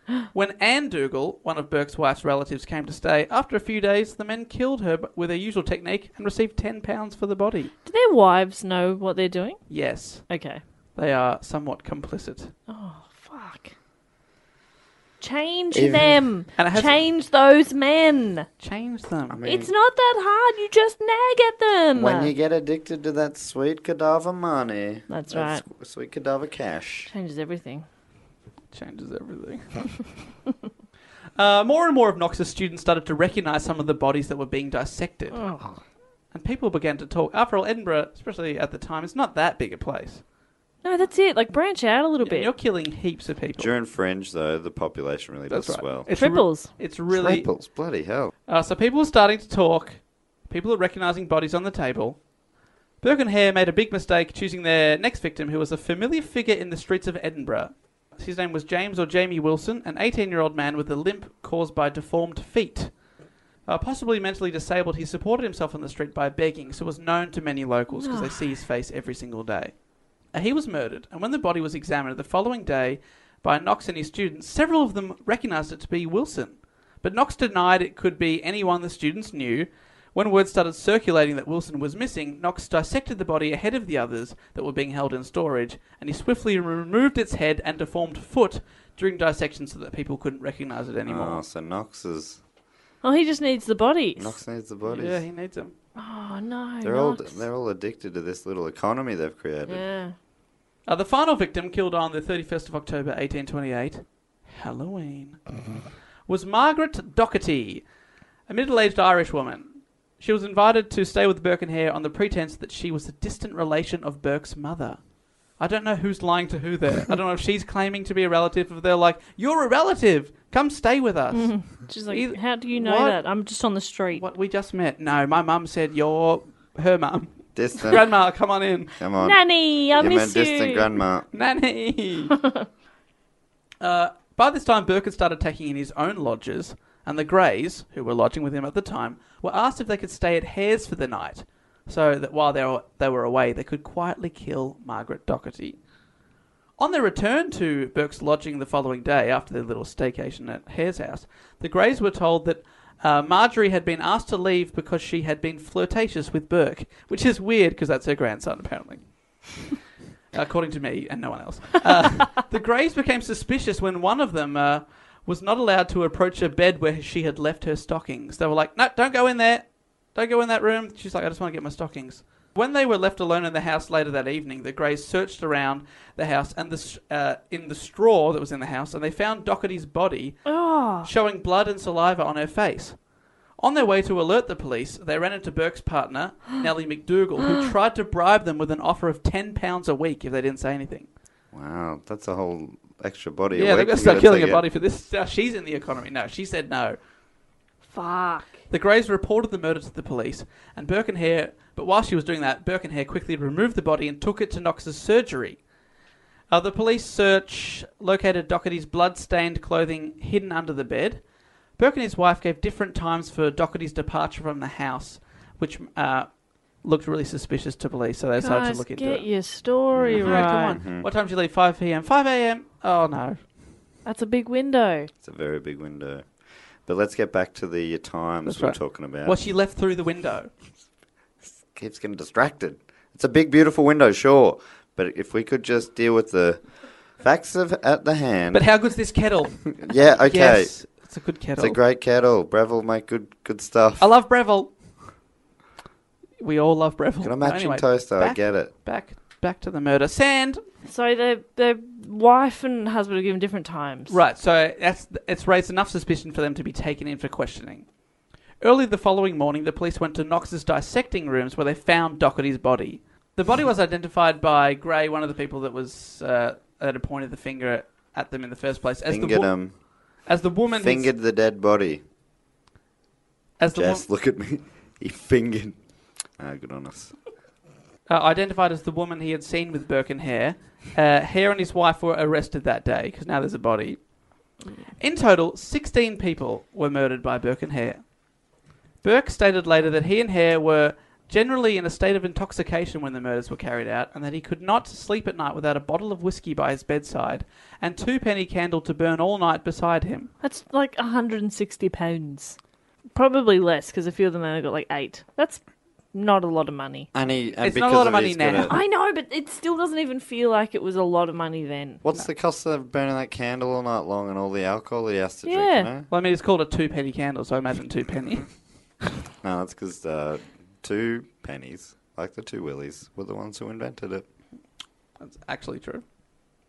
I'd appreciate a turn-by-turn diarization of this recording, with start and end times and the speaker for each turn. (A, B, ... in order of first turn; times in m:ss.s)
0:00.3-0:07.7 A
0:07.9-0:09.6 B
0:09.7-0:10.3 A
0:10.3-0:10.6 B
0:11.0-0:12.5 A
0:12.7-0:13.7 B
0:15.2-0:18.5 B
0:15.7-0:16.2 C
0:16.6-0:17.0 A
0:18.6-0:19.4 A
0:19.3-0:19.7 C
0:19.4-0:22.3 B
0:22.0-0:27.1 C
0:25.1-0:25.6 B
0:27.1-0:27.9 B
0:28.7-0:30.0 A
0:31.4-0:35.4 A
0:35.3-0:35.8 B
0:36.3-0:40.2 A
0:40.8-0:42.5 B
0:42.2-0:43.7 A
0:43.6-0:46.1 C
0:45.5-0:47.5 A
0:46.1-0:46.7 B
0:47.1-0:48.3 C
0:48.5-0:52.2 A
0:53.0-1:02.9 A
1:03.7-1:09.8 A
1:07.9-1:08.4 B
1:10.3-1:31.4 A
1:31.1-1:32.4 C
1:33.0-1:34.4 B
1:34.2-1:35.2 C
1:34.8-1:35.7 A
1:36.0-1:37.4 B
1:36.8-1:39.8 C
1:39.7-1:40.2 B
1:40.9-1:45.4 A
1:46.3-1:47.8 A
1:48.5-1:55.0 A
1:55.6-2:03.2 A
2:01.3-2:04.2 B
2:04.1-2:08.9 A
2:07.6-2:08.0 C
2:09.0-2:11.3 C
2:09.2-2:10.9 B
2:11.3-2:12.4 A
2:13.8-2:25.8 A
2:26.8-2:39.6 A
2:40.3-3:03.0 A
3:00.5-3:01.1 B
3:03.6-3:11.1 A
3:11.5-3:14.6 C
3:13.6-3:17.0 A
3:17.9-3:18.6 B
3:18.7-3:25.6 A
3:26.5-3:31.2 A
3:31.8-3:39.3 A
3:38.4-3:40.8 B
3:39.9-3:41.1 C
3:40.1-3:43.4 A
3:44.0-3:45.1 B
3:45.2-3:46.3 C
3:46.8-3:49.4 C
3:48.5-3:50.5 A
3:51.4-3:58.7 C
3:58.5-4:01.8 A
3:59.6-4:00.7 C
4:01.6-4:04.1 C
4:04.0-4:04.7 A
4:06.4-4:10.6 A
4:07.2-4:08.7 C
4:10.8-4:14.2 B
4:14.1-4:17.9 A
4:18.6-4:29.7 A
4:29.1-4:29.8 C
4:30.2-4:31.1 A
4:30.8-4:32.0 C
4:33.6-4:34.0 A
4:33.7-4:35.8 C
4:36.4-4:37.1 C
4:38.1-4:44.0 A
4:45.0-4:48.0 A
4:49.0-5:00.3 A
5:00.4-5:02.6 B
5:03.2-5:05.6 B
5:06.1-5:07.1 B
5:07.1-5:08.8 C
5:07.6-5:08.8 A
5:08.7-5:12.0 B
5:12.0-5:16.1 C
5:15.4-5:15.9 B
5:16.1-5:18.5 A
5:19.4-5:24.3 C
5:25.2-5:26.1 A